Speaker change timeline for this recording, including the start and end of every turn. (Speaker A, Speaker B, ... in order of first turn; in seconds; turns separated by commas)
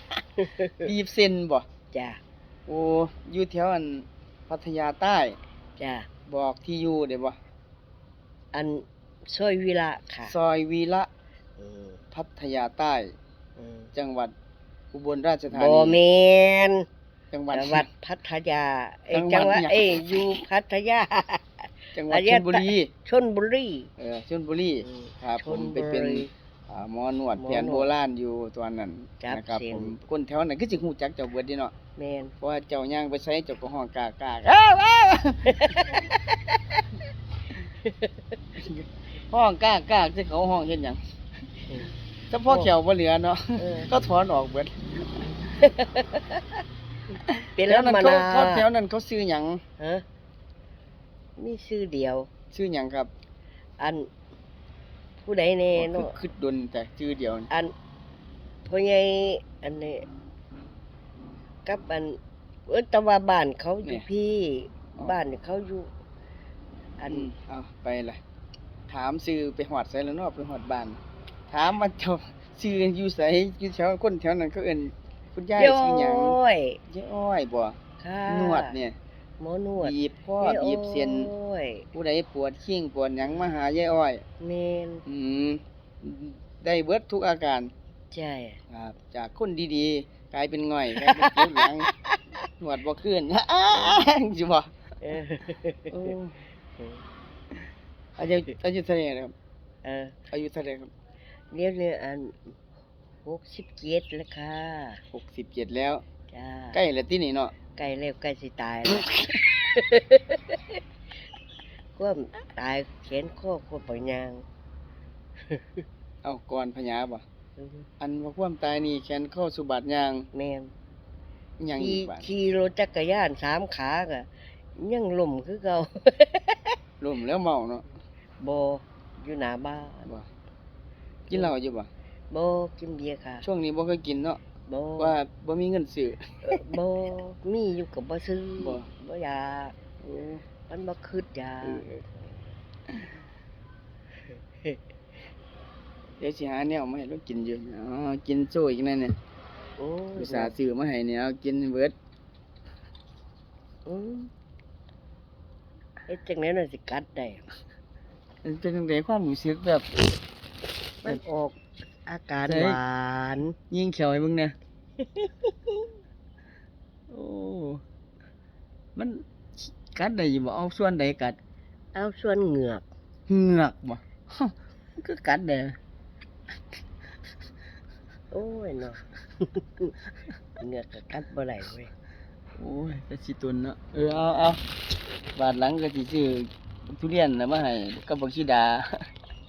Speaker A: 0.4-0.9, Speaker B: 0.8-1.7, Speaker A: 1.9-2.2, Speaker B: 2.7-5.4, Speaker A: 5.8-6.1, Speaker B: 6.3-7.4, Speaker A: 8.5-10.3, Speaker B: 10.3-11.1, Speaker A: 11.6-12.0, Speaker B: 12.1-13.2, Speaker A: 13.6-13.9, Speaker B: 13.9-14.3, Speaker B: 14.9-16.0, Speaker A: 15.5-16.9, Speaker B: 17.3-17.9, Speaker A: 17.5-23.9, Speaker B: 19.1-20.2, Speaker B: 21.9-22.9, Speaker B: 24.0-31.7, Speaker A: 24.8-26.3, Speaker A: 27.4-27.9, Speaker A: 29.2-30.0, Speaker A: 32.0-32.3, Speaker B: 32.4-36.1, Speaker A: 35.5-36.8, Speaker A: 37.8-38.1, Speaker B: 38.5-41.0, Speaker B: 42.3-45.4, Speaker A: 43.6-43.9, Speaker A: 45.6-46.6, Speaker B: 47.3-49.6, Speaker A: 47.6-48.6, Speaker A: 49.8-50.0, Speaker A: 51.4-52.3, Speaker B: 52.5-53.1, Speaker A: 53.8-54.1, Speaker A: 55.2-56.1, Speaker B: 55.8-57.5, Speaker A: 58.7-60.1, Speaker A: 61.6-65.9, Speaker A: 67.0-67.3, Speaker B: 67.1-68.2, Speaker B: 68.9-76.4, Speaker A: 75.6-76.8, Speaker B: 76.9-79.0, Speaker A: 78.0-78.8, Speaker A: 79.4-81.9, Speaker B: 79.8-81.3, Speaker B: 81.9-84.2, Speaker A: 84.4-85.0, Speaker B: 85.1-87.7, Speaker A: 88.1-88.6, Speaker B: 88.7-91.9, Speaker A: 91.0-92.2, Speaker B: 92.6-94.7, Speaker A: 95.0-96.1, Speaker B: 95.9-96.4, Speaker B: 98.2-99.3, Speaker A: 99.8-100.2, Speaker B: 100.3-100.9, Speaker A: 101.5-102.5, Speaker A: 103.2-105.0, Speaker B: 105.1-106.0, Speaker A: 106.3-106.8, Speaker B: 106.7-107.5, Speaker A: 107.8-110.8, Speaker B: 108.9-109.4, Speaker A: 112.0-114.5, Speaker A: 115.5-115.8, Speaker B: 116.2-117.2, Speaker A: 117.6-117.9, Speaker B: 118.0-120.3, Speaker A: 120.3-120.7, Speaker B: 121.6-122.3, Speaker A: 121.8-126.8, Speaker B: 127.0-127.9, Speaker A: 128.4-130.1, Speaker B: 131.3-131.9, Speaker A: 132.3-133.5, Speaker B: 133.4-134.4, Speaker A: 134.7-135.2, Speaker B: 135.0-136.6, Speaker A: 136.4-139.8, Speaker B: 138.6-138.9, Speaker B: 140.0-140.4, Speaker A: 140.7-142.3, Speaker B: 141.6-142.0, Speaker A: 144.3-144.8, Speaker B: 146.2-149.2, Speaker A: 149.8-150.6, Speaker B: 150.2-151.9, Speaker A: 153.9-154.3, Speaker A: 156.1-157.4, Speaker B: 158.4-159.9, Speaker A: 161.0-163.6, Speaker B: 162.4-162.8, Speaker B: 163.7-164.6, Speaker A: 165.0-165.8, Speaker B: 167.1-167.8, Speaker B: 169.0-171.4, Speaker A: 171.9-172.8, Speaker B: 173.3-175.8, Speaker A: 178.3-179.9, Speaker A: 180.6-181.9, Speaker B: 182.6-184.6, Speaker B: 185.4-188.9